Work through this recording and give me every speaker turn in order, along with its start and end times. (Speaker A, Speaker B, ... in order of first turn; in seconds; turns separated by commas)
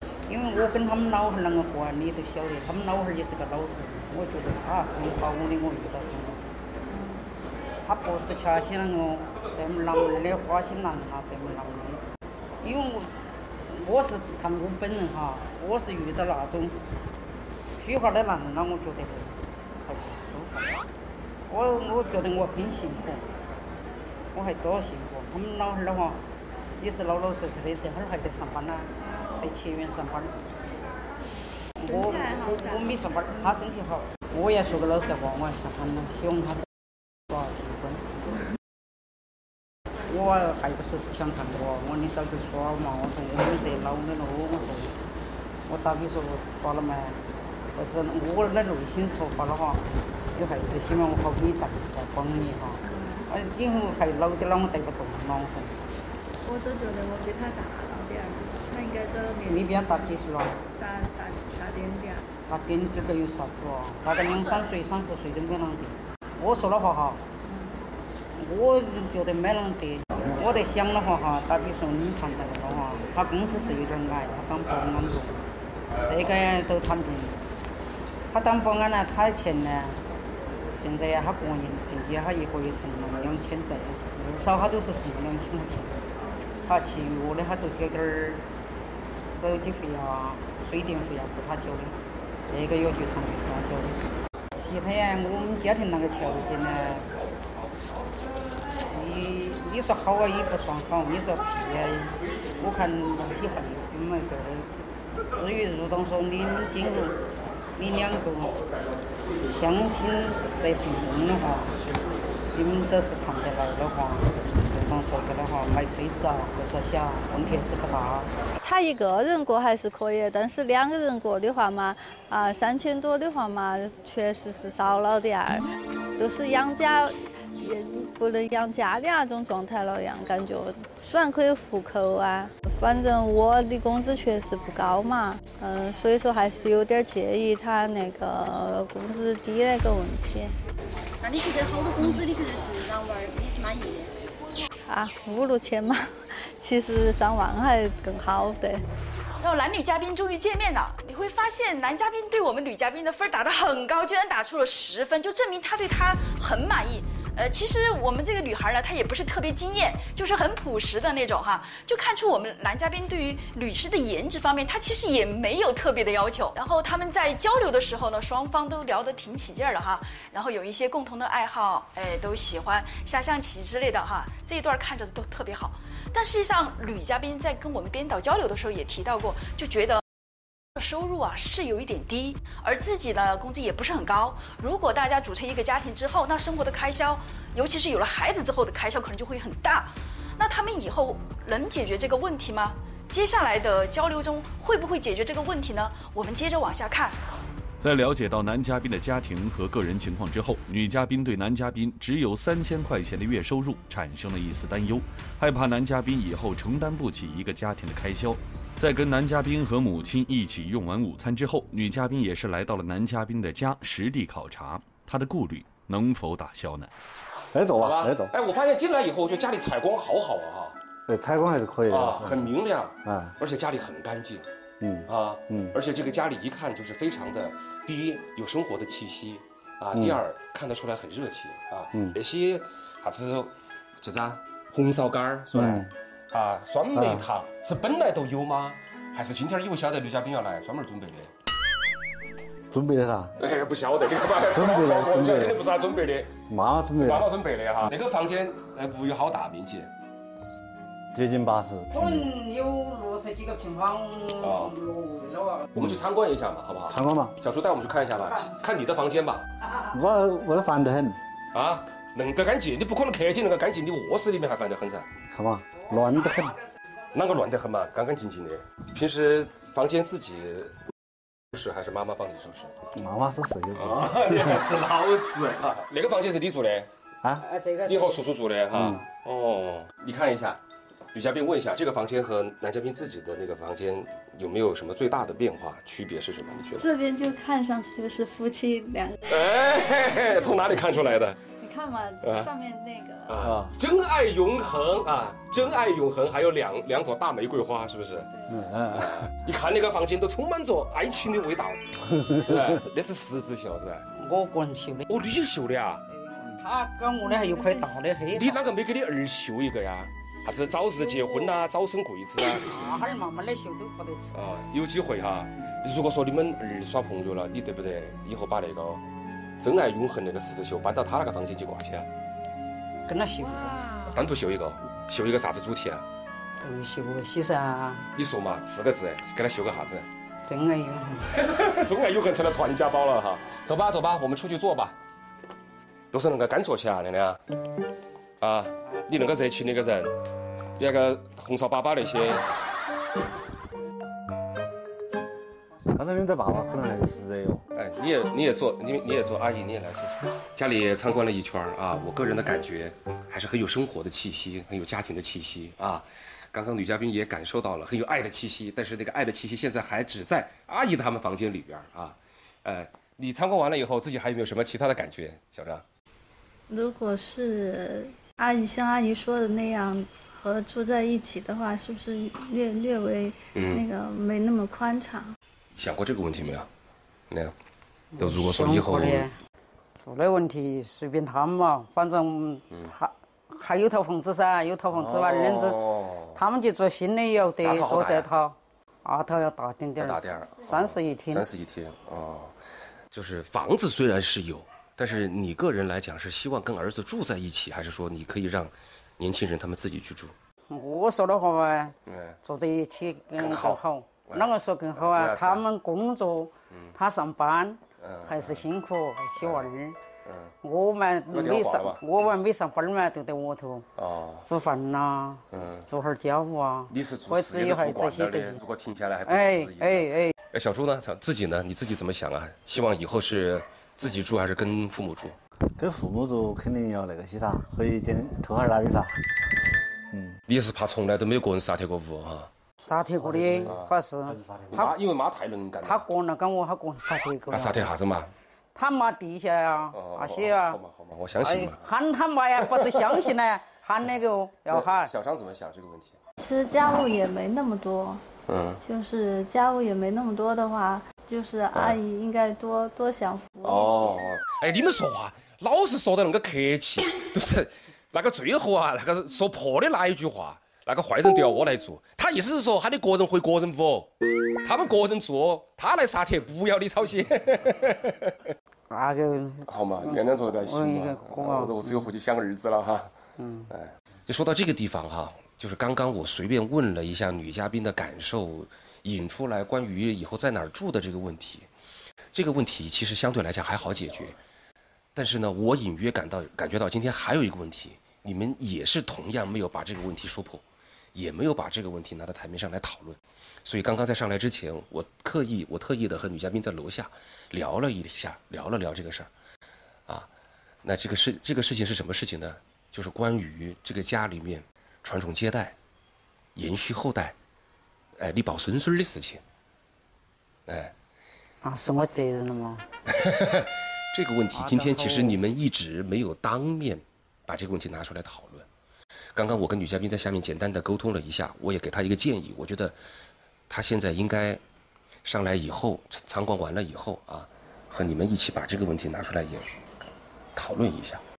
Speaker A: 0.3-6.5, Speaker B: 6.9-7.2, Speaker A: 7.8-12.0, Speaker A: 12.6-13.1, Speaker A: 13.7-16.8, Speaker A: 17.8-20.7, Speaker A: 21.5-23.2, Speaker A: 24.3-26.2, Speaker A: 26.8-30.3, Speaker A: 31.8-36.7, Speaker B: 31.8-33.2, Speaker A: 37.3-38.0, Speaker A: 40.1-44.9, Speaker A: 45.7-47.2, Speaker A: 47.8-55.8, Speaker B: 52.9-53.3, Speaker B: 56.4-60.2, Speaker A: 59.5-60.6, Speaker B: 60.8-62.3, Speaker A: 62.5-67.2, Speaker B: 67.4-67.8, Speaker A: 68.3-75.4, Speaker A: 76.1-77.4, Speaker A: 78.3-80.0, Speaker A: 80.8-86.0, Speaker A: 86.7-88.4, Speaker A: 89.3-92.0, Speaker A: 92.5-97.1, Speaker A: 98.9-104.7, Speaker A: 105.3-107.2, Speaker A: 107.8-108.6, Speaker A: 109.5-111.7, Speaker A: 112.5-118.3, Speaker B: 118.6-125.6, Speaker B: 126.2-140.6, Speaker C: 141.2-144.1, Speaker B: 144.9-148.8, Speaker D: 149.4-180.0, Speaker D: 180.7-197.2, Speaker E: 197.8-216.9, Speaker F: 217.5-218.3, Speaker G: 217.8-220.8, Speaker F: 221.1-222.5, Speaker G: 221.9-224.4, Speaker F: 223.0-223.3, Speaker F: 224.8-225.7, Speaker G: 225.1-241.3, Speaker F: 229.9-230.2, Speaker F: 235.5-235.9, Speaker F: 236.9-237.2, Speaker F: 242.7-243.3, Speaker G: 243.4-246.3, Speaker F: 244.4-245.6, Speaker F: 246.5-247.3, Speaker G: 246.9-249.9, Speaker F: 251.1-252.3, Speaker A: 251.9-255.7, Speaker G: 254.4-254.7, Speaker F: 255.7-256.0, Speaker G: 255.7-259.4, Speaker F: 256.9-257.3, Speaker F: 259.9-261.2, Speaker G: 261.5-265.1, Speaker F: 265.3-266.6, Speaker G: 267.1-270.7, Speaker G: 271.5-272.7, Speaker F: 272.9-274.6, Speaker G: 273.8-276.9, Speaker A: 277.4-278.1, Speaker G: 277.9-280.6, Speaker F: 278.7-279.0, Speaker G: 281.1-286.9, Speaker B: 286.8-289.2, Speaker G: 289.3-291.4, Speaker B: 291.5-293.5, Speaker G: 292.2-292.5, Speaker G: 293.3-298.3, Speaker F: 293.4-293.7, Speaker F: 298.5-299.2, Speaker G: 298.9-304.1, Speaker F: 302.1-302.8, Speaker A: 304.1-305.1, Speaker G: 305.1-306.0, Speaker A: 306.1-308.6, Speaker B: 307.3-307.9, Speaker G: 308.3-313.0, Speaker A: 310.8-311.6, Speaker A: 312.4-314.3, Speaker G: 314.3-319.0, Speaker G: 319.6-322.1, Speaker A: 323.1-324.1, Speaker G: 324.1-326.0, Speaker A: 326.6-328.0, Speaker G: 328.1-330.1, Speaker A: 330.4-331.3, Speaker G: 331.3-334.9, Speaker G: 336.1-337.4, Speaker G: 338.4-340.1, Speaker G: 340.8-342.4, Speaker F: 345.9-347.6, Speaker G: 347.7-365.8, Speaker B: 366.7-375.3, Speaker G: 373.5-373.8, Speaker G: 375.8-376.7, Speaker A: 378.1-379.4, Speaker G: 378.2-379.3, Speaker A: 380.0-385.8, Speaker G: 384.9-386.4, Speaker A: 386.3-391.5, Speaker G: 387.6-388.3, Speaker G: 390.0-392.5, Speaker G: 393.1-400.3, Speaker A: 400.7-410.0, Speaker G: 402.1-402.4, Speaker G: 403.4-405.6, Speaker G: 408.0-408.6, Speaker G: 409.4-409.7, Speaker G: 410.2-410.5, Speaker A: 410.6-413.9, Speaker G: 411.3-412.0, Speaker G: 414.0-414.5, Speaker A: 414.5-418.6, Speaker G: 415.5-415.9, Speaker G: 416.9-425.4, Speaker A: 419.3-420.3, Speaker F: 425.8-429.2, Speaker F: 430.1-430.4, Speaker G: 430.5-432.5, Speaker A: 432.8-434.9, Speaker F: 433.2-434.9, Speaker G: 433.6-433.9, Speaker G: 434.7-436.1, Speaker A: 435.8-437.9, Speaker G: 437.5-438.3, Speaker A: 438.7-440.8, Speaker G: 439.9-441.8, Speaker A: 441.4-445.1, Speaker G: 442.6-443.3, Speaker G: 444.7-446.2, Speaker B: 446.4-448.2, Speaker G: 448.5-448.8, Speaker B: 448.8-454.2, Speaker G: 451.7-452.0, Speaker G: 453.6-464.1, Speaker G: 464.6-468.5, Speaker A: 468.9-472.0, Speaker G: 469.7-473.1, Speaker A: 473.4-473.7, Speaker G: 473.7-481.7, Speaker G: 482.3-484.4, Speaker G: 485.1-490.6, Speaker G: 491.1-499.3, Speaker G: 500.8-505.8, Speaker G: 506.6-507.3, Speaker G: 508.2-509.4, Speaker G: 510.7-510.9, Speaker A: 511.6-512.8, Speaker G: 513.1-518.7, Speaker A: 514.5-515.4, Speaker G: 519.3-523.0, Speaker G: 523.7-524.6, Speaker G: 525.2-529.7, Speaker G: 530.5-531.2